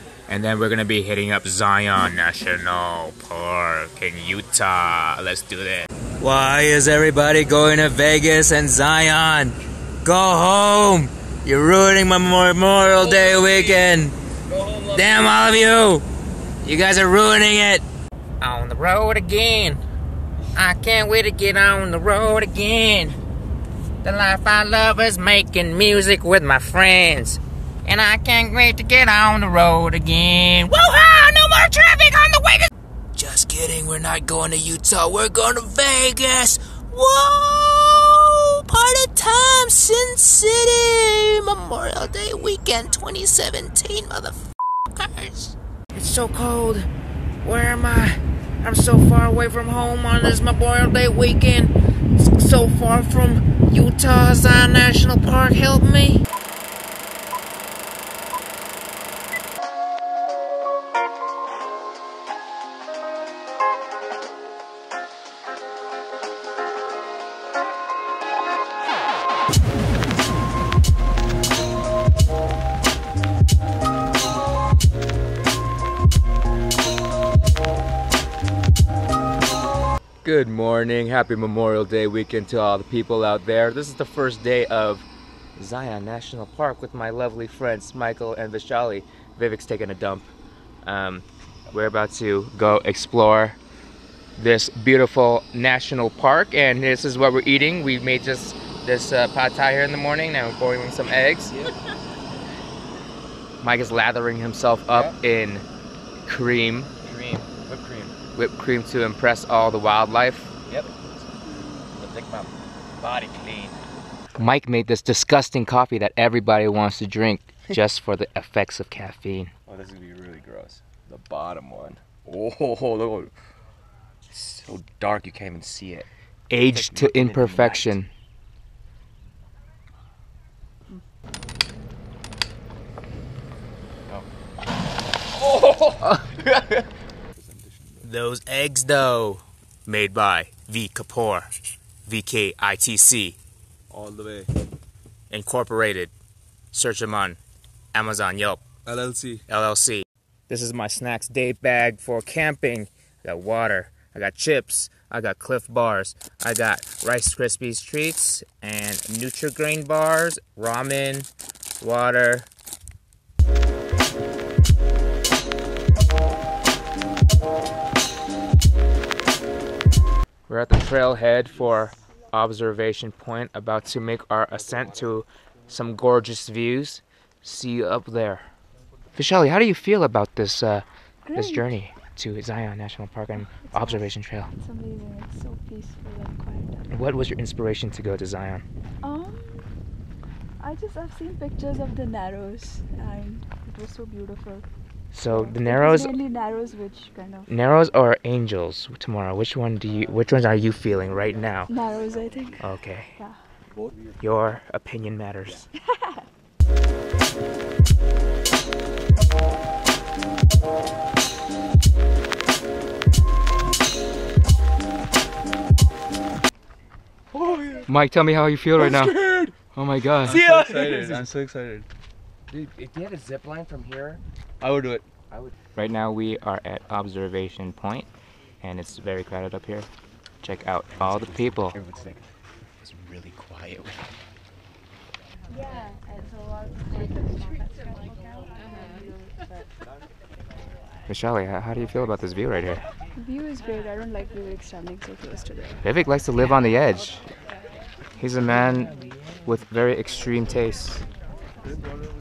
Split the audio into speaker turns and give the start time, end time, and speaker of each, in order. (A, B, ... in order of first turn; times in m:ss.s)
0:00.3-0:14.1 A
0:14.8-0:16.0 A
0:16.6-0:17.8 A
0:18.4-0:19.8 A
0:20.6-0:23.2 A
0:24.0-0:44.4 A
0:44.9-0:46.9 A
0:47.4-0:56.2 A
1:20.2-1:25.1 A
1:25.6-1:30.3 A
1:30.8-1:33.6 A
1:34.4-1:41.6 A
1:43.6-1:45.6 A
1:46.2-1:46.9 A
1:47.1-1:48.1 B
1:48.4-1:50.5 A
1:52.0-1:52.5 B
1:53.0-1:53.8 B
1:54.4-1:59.5 A
1:59.7-2:03.3 B
2:04.3-2:06.1 B
2:06.5-2:08.1 A
2:06.7-2:08.0 B
2:15.5-2:16.1 B
2:18.0-2:21.5 A
2:22.1-2:23.4 A
2:23.9-2:24.5 C
2:25.3-2:26.1 A
2:26.7-2:27.4 A
2:27.9-2:28.6 A
2:28.9-2:29.4 C
2:29.5-2:41.3 A
2:41.8-2:42.5 A
2:50.5-2:58.5 A
2:59.2-3:04.5 A
3:01.2-3:01.7 D
3:03.7-3:06.9 D
3:06.9-3:08.6 A
3:09.0-3:09.6 D
3:10.6-3:14.6 D
3:15.1-3:16.2 A
3:15.3-3:17.5 D
3:17.5-3:21.7 A
3:21.7-3:22.6 D
3:22.6-3:23.2 A
3:24.2-3:25.7 A
3:25.9-3:26.2 D
3:37.3-3:37.8 C
3:37.9-3:40.4 A
3:38.8-3:39.5 C
3:40.2-3:41.9 C
3:40.3-3:41.3 B
3:42.5-3:44.2 B
3:44.6-3:45.1 C
3:45.8-3:48.1 A
3:48.6-3:49.9 A
3:50.4-3:51.8 A
3:51.0-3:52.2 B
3:52.8-3:54.0 B
4:01.1-4:02.8 A
4:03.2-4:05.8 D
4:05.8-4:07.2 A
4:08.2-4:08.9 A
4:09.5-4:11.0 A